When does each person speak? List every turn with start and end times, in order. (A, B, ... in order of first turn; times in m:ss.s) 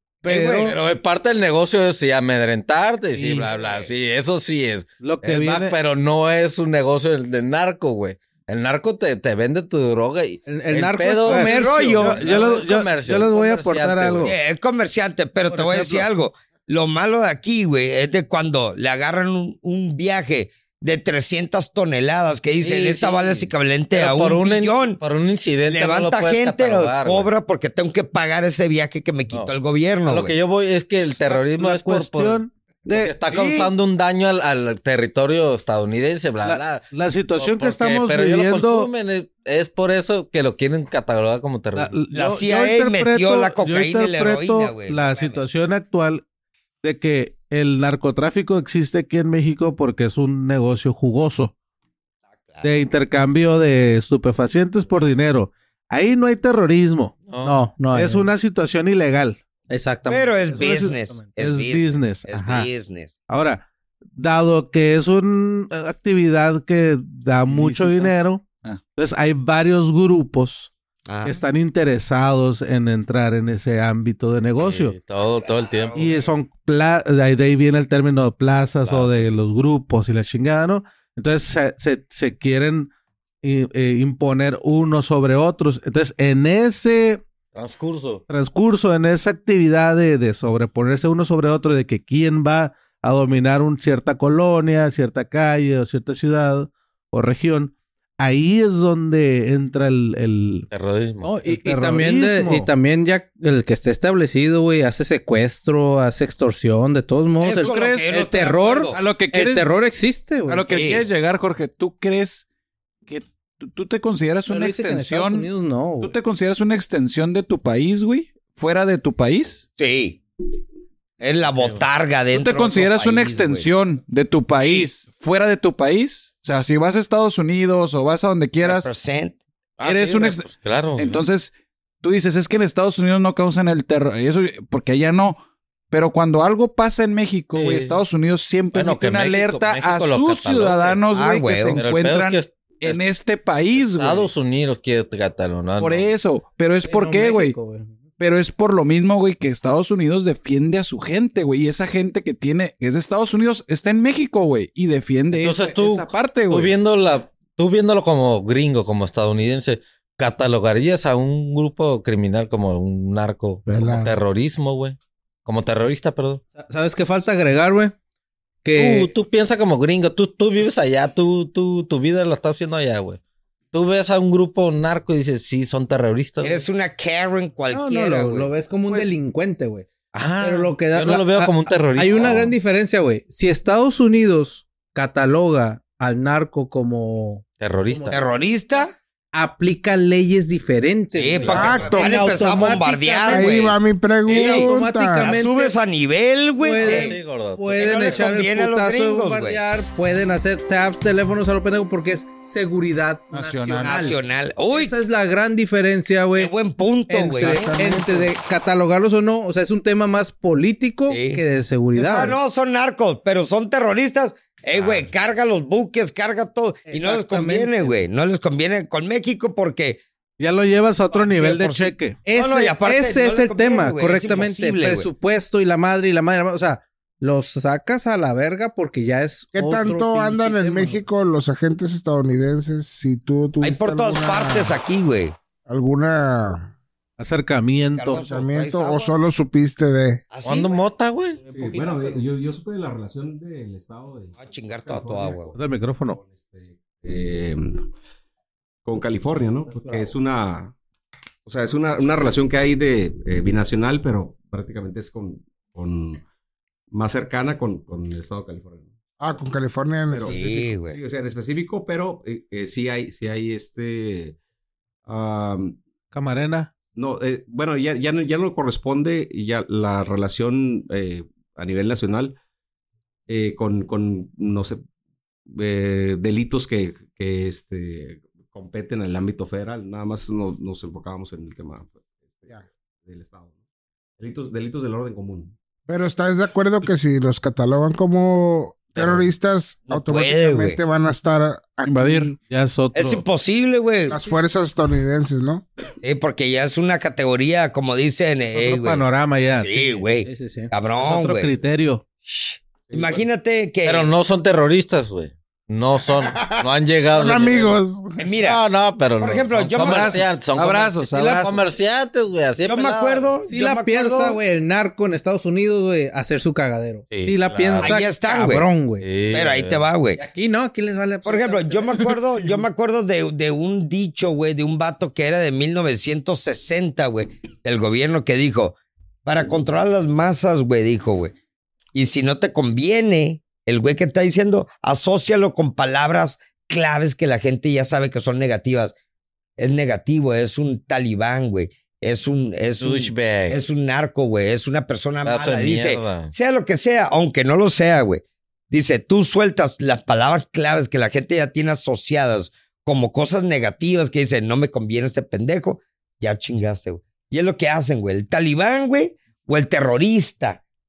0:00.2-0:00.8 A
0:00.2-0:00.8 B
0:00.6-0:14.3 C
0:03.2-0:03.5 A
0:03.5-0:03.9 B
0:05.0-0:05.8 A
0:10.4-0:12.1 D
0:11.3-0:12.6 B
0:11.3-0:14.4 A
0:14.2-0:25.0 B
0:15.5-0:16.1 A
0:22.6-0:27.3 C
0:25.6-0:30.3 B
0:30.0-0:41.9 C
0:31.2-0:33.2 A
0:33.2-0:33.7 B
0:36.4-0:38.9 A
0:41.7-0:46.2 A
0:42.1-0:45.4 B
0:46.8-0:51.5 A
0:52.6-0:57.1 A
0:57.3-0:57.6 C
0:57.4-0:58.3 D
0:57.9-0:59.4 A
0:59.7-1:01.4 D
1:00.1-1:03.1 B
1:00.6-1:02.6 A
1:03.3-1:03.6 A
1:04.2-1:10.7 A
1:07.5-1:08.1 D
1:11.1-1:11.4 B
1:11.2-1:15.0 A
1:14.6-1:16.1 C
1:15.4-1:16.3 B
1:15.9-1:22.9 A
1:18.8-1:19.3 C
1:23.4-1:27.2 A
1:27.5-1:28.2 C
1:28.3-1:40.7 A
1:40.7-1:41.4 C
1:41.2-1:50.7 D
1:41.4-1:42.7 A
1:47.4-1:49.0 B
1:47.5-1:48.1 E
1:48.9-1:49.8 E
1:50.4-1:52.4 E
1:50.7-1:51.0 B
1:53.1-1:55.5 E
1:54.5-1:56.1 D
1:56.0-1:59.6 E
1:59.8-2:00.2 B
2:01.2-2:03.7 B
2:01.6-2:01.8 C
2:02.3-2:08.9 E
2:04.6-2:04.9 B
2:08.6-2:09.4 B
2:09.8-2:11.2 C
2:09.8-2:15.4 E
2:15.9-2:24.3 E
2:17.5-2:18.0 C
2:18.7-2:21.0 C
2:21.1-2:21.8 B
2:21.8-2:23.0 C
2:23.7-2:26.1 C
2:25.8-2:27.6 E
2:26.8-2:28.0 D
2:28.2-2:36.7 E
2:35.3-2:46.4 C
2:43.6-2:44.1 F
2:46.5-2:47.9 D
2:48.6-2:49.1 D
2:48.8-2:53.2 C
2:53.7-2:56.6 C
2:56.4-2:59.1 B
2:57.7-2:59.9 D
3:00.1-3:02.5 C
3:00.4-3:08.2 D
3:07.6-3:08.2 C
3:08.1-3:08.9 B
3:09.3-3:13.6 D
3:11.1-3:13.8 B
3:11.3-3:12.8 C
3:11.5-3:12.2 F
3:13.3-3:15.4 F
3:14.3-3:15.8 D
3:14.3-3:14.7 B
3:15.2-3:17.2 B
3:16.6-3:26.5 D
3:16.8-3:17.9 C
3:17.7-3:19.6 B
3:23.3-3:24.1 E
3:23.8-3:24.9 B
3:26.3-3:27.8 B
3:27.1-3:32.4 D
3:27.4-3:28.3 F
3:31.1-3:31.4 B
3:31.9-3:40.0 B
3:34.7-3:35.0 C
3:36.8-3:38.0 D
3:40.4-3:42.2 A
3:41.1-3:45.1 B
3:42.2-3:51.0 D
3:49.5-3:54.8 F
3:53.6-3:55.4 B
3:55.7-3:56.7 F
3:57.2-3:58.2 A
3:57.9-3:59.1 B
3:58.0-4:00.2 F
4:00.3-4:00.7 B
4:00.4-4:01.4 C
4:01.4-4:02.2 D
4:01.5-4:07.9 G
4:04.4-4:05.5 B
4:05.5-4:06.2 A
4:08.8-4:10.7 G
4:09.7-4:10.1 D
4:11.4-4:16.2 G
4:16.9-4:18.9 G
4:19.2-4:20.7 F
4:20.1-4:24.4 G
4:20.2-4:21.0 B
4:25.0-4:25.8 G
4:26.1-4:26.7 A
4:26.9-4:32.4 G
4:33.3-4:34.8 G
4:35.5-4:43.6 G
4:44.2-4:45.5 G
4:45.9-4:52.4 F
4:49.0-4:49.2 B
4:49.9-4:50.8 B
4:51.8-4:52.3 E
4:52.5-4:53.2 A
4:52.9-4:54.2 B
4:54.1-4:55.6 F
4:56.0-4:59.0 B
4:58.5-4:59.9 A
4:59.6-5:01.5 B
5:00.2-5:00.7 D
5:00.9-5:02.0 A
5:02.2-5:04.1 B
5:02.9-5:03.2 G
5:03.8-5:07.8 C
5:07.1-5:08.2 F
5:08.2-5:08.6 B
5:08.4-5:13.4 C
5:09.2-5:10.3 B
5:09.7-5:11.4 E
5:10.7-5:11.6 D
5:12.6-5:14.4 B
5:13.4-5:19.1 D
5:17.1-5:18.0 C
5:17.8-5:18.7 B
5:19.0-5:19.8 C
5:19.3-5:20.2 B
5:20.2-5:22.3 D
5:21.2-5:31.3 B
5:31.9-5:38.9 B
5:39.6-6:00.6 B
5:42.8-5:43.6 C
5:45.2-5:46.3 C